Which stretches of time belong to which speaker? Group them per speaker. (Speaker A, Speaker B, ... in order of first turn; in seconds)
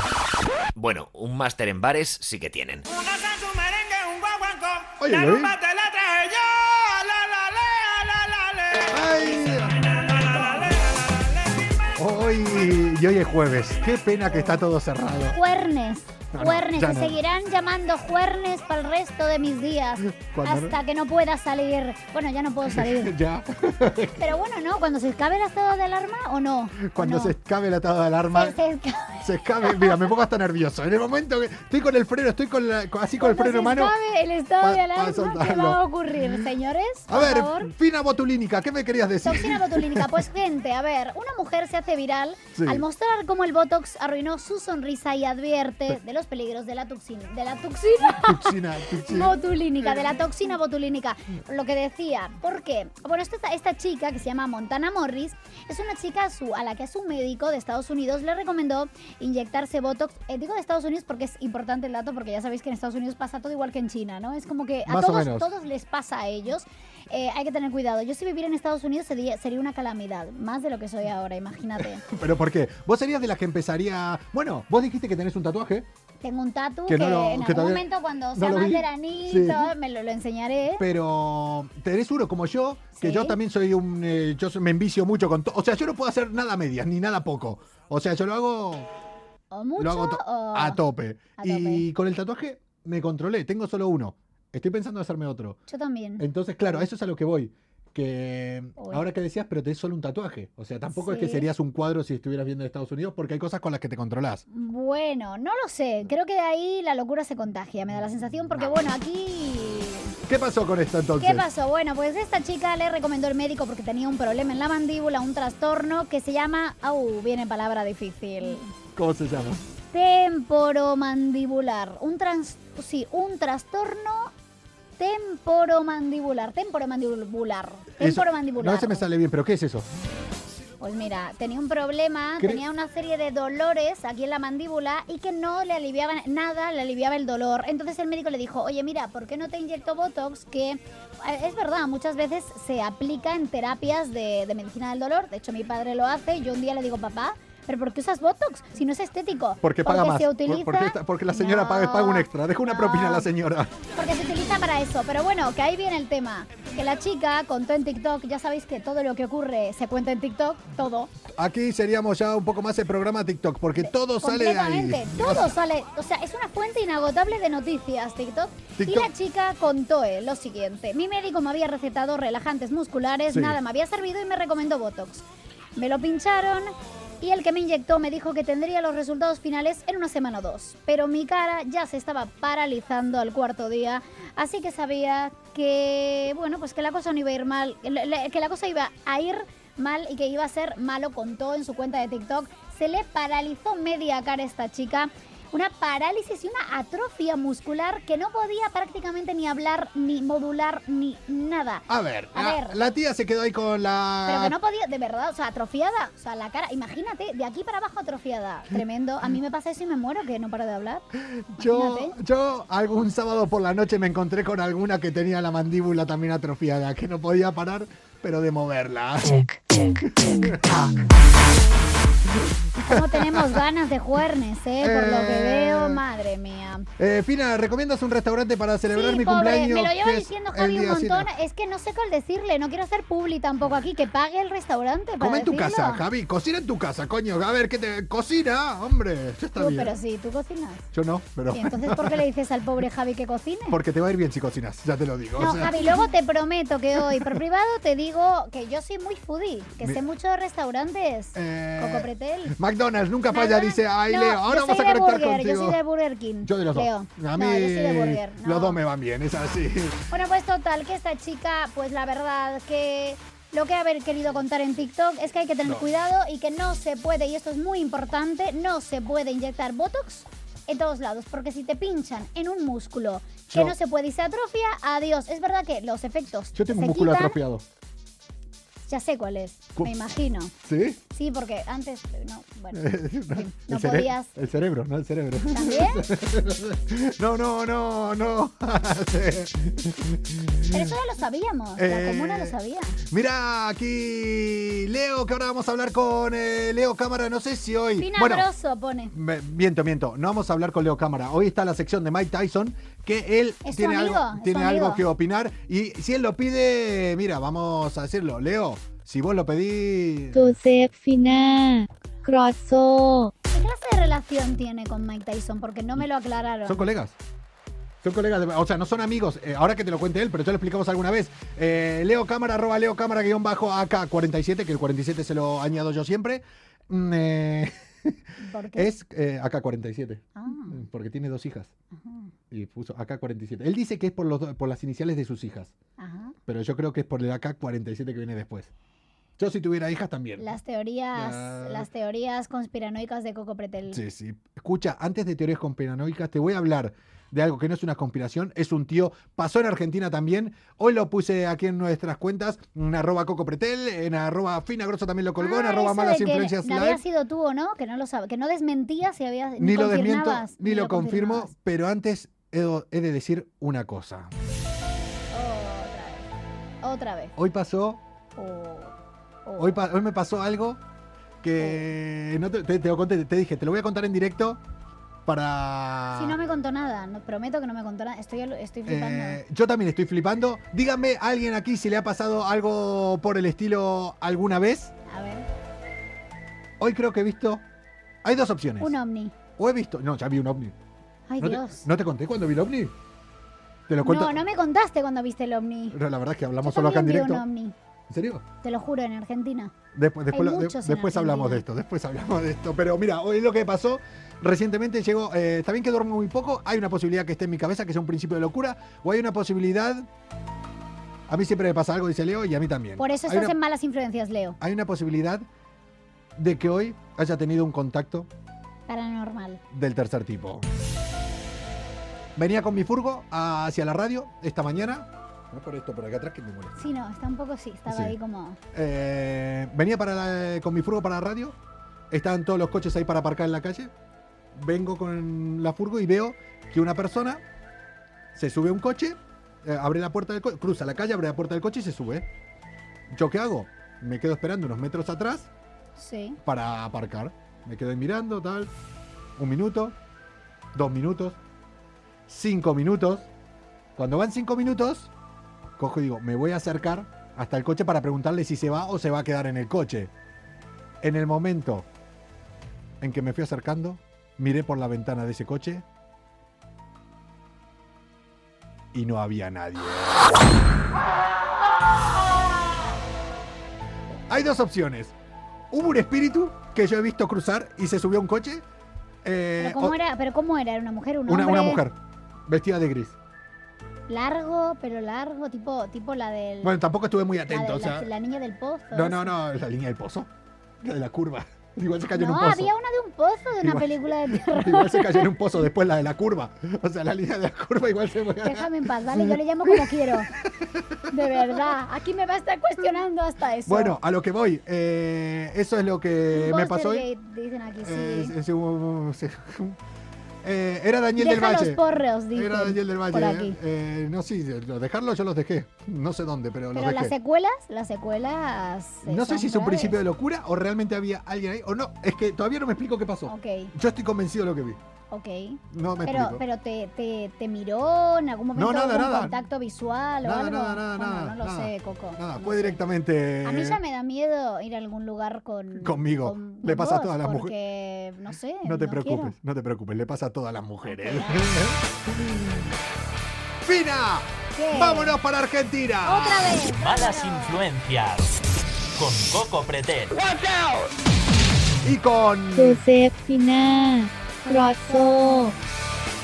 Speaker A: 0.7-2.8
Speaker B: 2.9-11.7
Speaker C: 5.0-5.5, 8.9-9.8, 11.9-15.4, 16.3-17.2, 20.0-20.8, 22.6-24.3, 26.9-28.6, 29.2-33.9, 34.6-36.4, 37.1-40.2, 42.5-42.8, 48.1-50.1, 64.9-65.5, 71.8-75.9, 76.9-79.7, 80.8-88.9, 89.8-95.6, 96.2-104.4, 110.3-111.4, 118.9-119.6, 128.0-129.9, 149.6-153.7, 161.3-165.5, 168.8-169.1, 173.3-173.6, 201.9-204.5, 211.2-220.9, 222.8-223.6, 224.8-226.0, 227.0-231.3, 235.2-239.9, 240.9-242.2, 243.7-245.8, 247.0-247.3, 251.3-255.8, 256.4-260.1, 273.5-273.7, 276.5-277.6, 280.6-281.0, 282.7-290.9, 291.8-292.5, 293.1-298.5, 299.1-310.4, 316.6-317.1, 318.0-328.2, 328.7-331.7, 332.5-335.7, 336.5-338.7, 339.4-340.5, 341.1-341.9, 343.9-357.0, 359.6-364.3, 367.4-368.0, 369.6-370.8, 371.4-374.6, 375.2-376.4, 378.9-384.9, 386.8-387.6, 388.2-388.9, 389.6-390.7, 391.4-392.9, 393.9-394.4, 395.9-397.4, 398.1-398.4, 399.9-410.1, 411.3-413.6, 414.6-415.4, 416.4-418.3, 419.7-420.7, 422.4-426.8, 427.9-428.1, 428.7-431.6, 432.1-433.9, 434.5-437.4, 438.3-442.3, 443.1-445.5, 446.4-448.7, 449.4-449.9, 450.7-451.4, 452.3-453.3, 453.9-455.1, 455.8-460.1, 461.0-461.9, 463.0-465.8, 468.9-470.4, 474.3-475.1, 475.7-478.6, 479.2-480.0, 481.3-483.1, 486.6-488.1, 488.9-490.3, 490.8-492.7, 493.6-501.1, 503.6-507.1, 507.8-509.8, 510.4-511.8, 512.3-517.1, 519.0-524.8, 525.7-526.4, 528.5-529.4, 530.2-533.8, 535.8-537.5, 538.6-542.6, 543.6-546.5, 551.8-552.8
Speaker D: 15.3-23.1, 24.2-27.3, 28.3-30.0, 33.2-37.7, 39.2-72.0, 76.2-80.8, 83.0-83.4, 89.5-90.8, 91.4-91.8, 95.7-96.2, 98.8-99.0, 100.9-101.5, 104.5-110.2, 111.2-118.7, 119.9-124.3, 125.0-129.1, 130.8-153.3, 153.9-161.1, 163.8-175.2, 175.8-202.8, 204.3-211.0, 211.6-212.2, 222.8-226.9, 228.9-236.0, 239.6-240.9, 241.5-243.8, 245.4-252.6, 253.3-258.8, 260.1-277.4, 278.9-280.5, 281.1-284.3, 285.5-286.1, 290.7-293.0, 298.0-299.1, 303.6-305.0, 313.5-316.8, 328.4-328.9, 330.4-330.8, 331.9-332.3, 336.0-336.4, 340.4-344.0, 355.4-361.5, 365.3-366.3, 366.8-367.3, 368.4-369.8, 371.6-371.9, 376.1-379.4, 385.1-385.4, 388.8-389.3, 391.3-391.8, 394.0-396.0, 396.6-397.7, 398.6-399.7, 400.3-401.6, 413.0-414.6, 418.9-419.6, 426.8-428.6, 446.0-446.4, 479.6-481.8, 484.1-486.7, 487.5-489.3, 492.1-495.3, 498.4-500.3, 501.1-503.9, 506.3-508.3, 511.2-513.6, 516.7-520.0, 523.3-523.7, 525.1-532.8, 533.4-539.3, 540.8-541.5, 544.5-545.2, 546.0-547.6, 554.5-555.5
Speaker E: 310.3-313.3, 552.5-555.5
Speaker F: 546.7-548.4, 549.0-550.2